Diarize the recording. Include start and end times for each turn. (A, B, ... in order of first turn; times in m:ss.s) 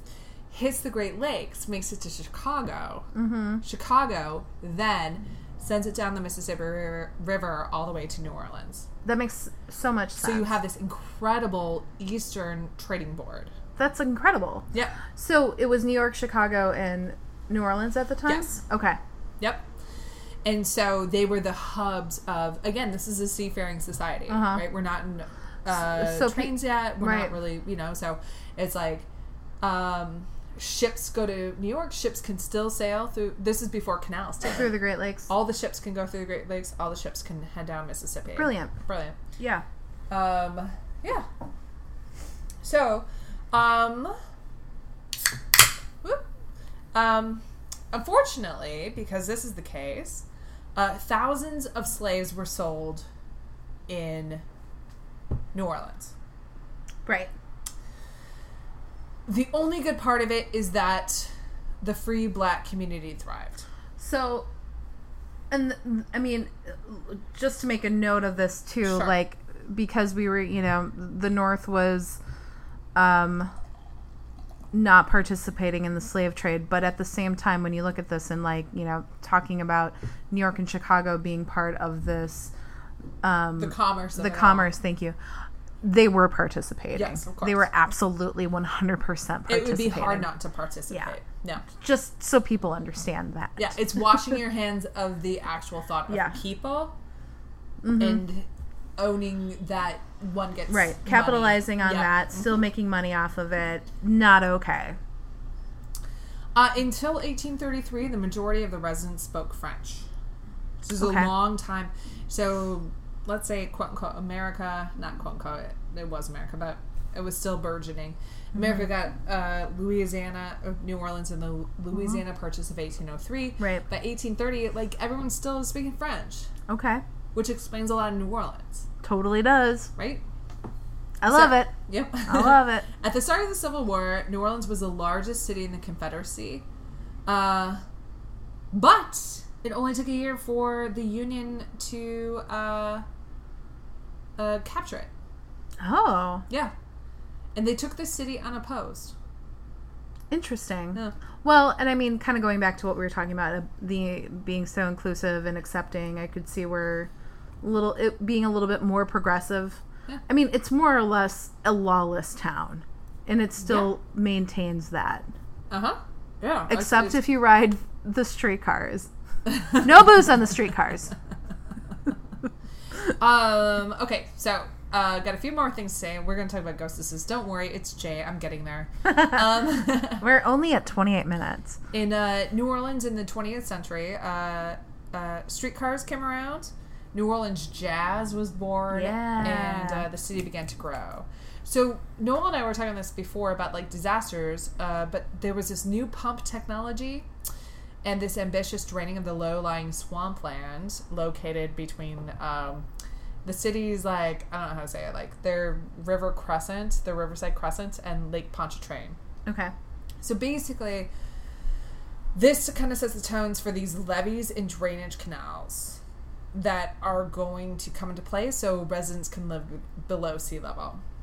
0:00.5-0:03.1 A
0:03.1-0:03.6 B
0:03.6-0:08.9 A
0:09.0-0:10.6 B
0:10.2-0:13.5 A
0:13.8-0:19.0 B
0:14.7-0:15.0 A
0:18.3-0:18.5 A
0:19.4-0:19.7 A
0:20.4-0:29.1 A
0:24.3-0:24.6 B
0:25.8-0:27.3 B
0:29.6-0:34.7 A
0:34.4-0:35.3 B
0:35.3-0:39.2 A
0:38.4-0:38.7 B
0:39.4-0:39.6 B
0:40.1-0:41.2 A
0:42.6-0:44.1 A
0:46.9-0:53.0 A
0:53.9-0:54.4 A
0:55.5-0:56.1 A
0:57.0-0:57.3 B
0:59.3-1:03.6 A
1:04.0-1:04.5 B
1:05.5-1:12.2 B
1:08.8-1:09.1 A
1:12.9-1:13.5 B
1:14.7-1:22.5 B
1:23.2-1:25.2 B
1:23.6-1:24.7 A
1:25.8-1:30.3 B
1:26.9-1:27.7 A
1:29.5-1:31.7 A
1:31.8-1:33.8 B
1:33.6-1:36.9 A
1:36.1-1:36.4 B
1:37.8-1:38.2 B
1:38.0-1:42.5 A
1:40.7-1:45.0 B
1:46.5-1:50.0 A
1:50.8-2:06.5 A
1:51.0-1:51.3 B
2:06.7-2:07.0 B
2:07.3-2:08.9 A
2:09.0-2:09.9 B
2:10.0-2:10.2 A
2:11.2-2:11.7 B
2:11.3-2:16.6 A
2:12.2-2:12.9 B
2:17.3-2:17.8 A
2:18.7-2:23.0 A
2:24.4-2:25.1 A
2:25.8-2:26.4 B
2:27.5-2:29.1 A
2:30.3-2:37.1 B
2:37.6-2:45.3 B
2:43.6-2:43.9 A
2:45.7-2:47.2 A
2:46.7-2:49.1 B
2:49.5-2:49.8 A
2:49.8-2:51.1 B
2:53.0-3:00.2 A
3:00.2-3:01.8 B
3:01.9-3:17.3 A
3:08.9-3:10.0 B
3:18.0-3:22.8 A
3:23.4-3:29.2 A
3:29.4-3:29.7 B
3:30.2-3:31.1 A
3:32.3-3:36.0 A
3:36.5-3:41.0 A